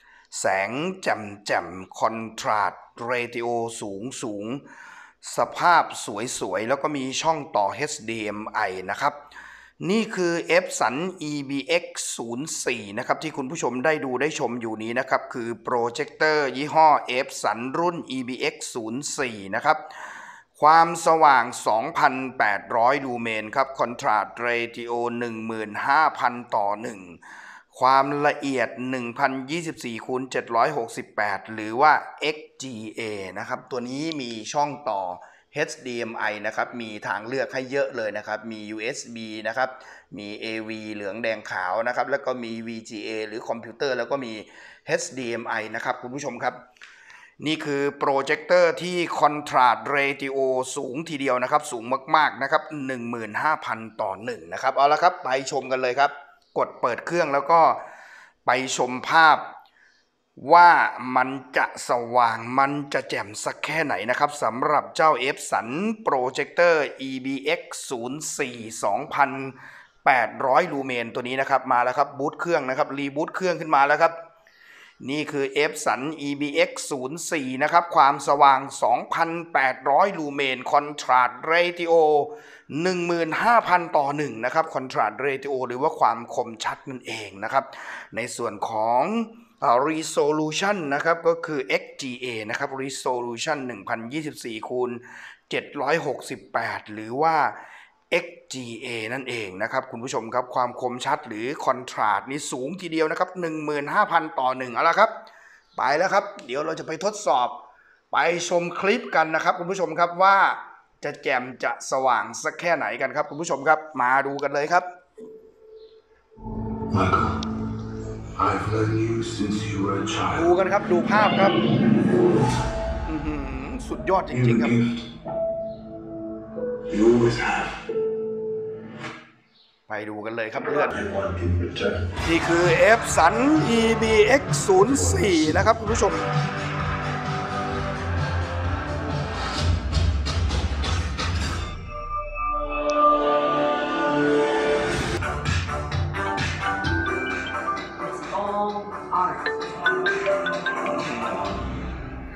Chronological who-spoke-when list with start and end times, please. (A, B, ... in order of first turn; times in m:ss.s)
0:00.3-0:04.6 A
0:05.2-0:09.2 A
0:09.8-0:19.9 A
0:20.6-0:27.2 A
0:27.7-0:46.6 A
0:47.4-0:57.8 A
0:58.4-0:59.5 A
1:00.4-1:14.2 A
1:15.0-1:37.6 A
1:38.1-1:45.1 A
1:45.8-1:47.6 A
1:48.1-1:54.9 A
1:56.9-1:57.4 B
1:58.4-2:00.5 B
2:00.3-2:01.6 A
2:03.0-2:04.8 A
2:04.3-2:05.0 B
2:06.9-2:07.7 B
2:09.9-2:11.0 A
2:10.9-2:11.9 B
2:12.2-2:16.3 A
2:14.8-2:15.7 B
2:28.0-2:31.2 C
2:30.9-2:31.5 A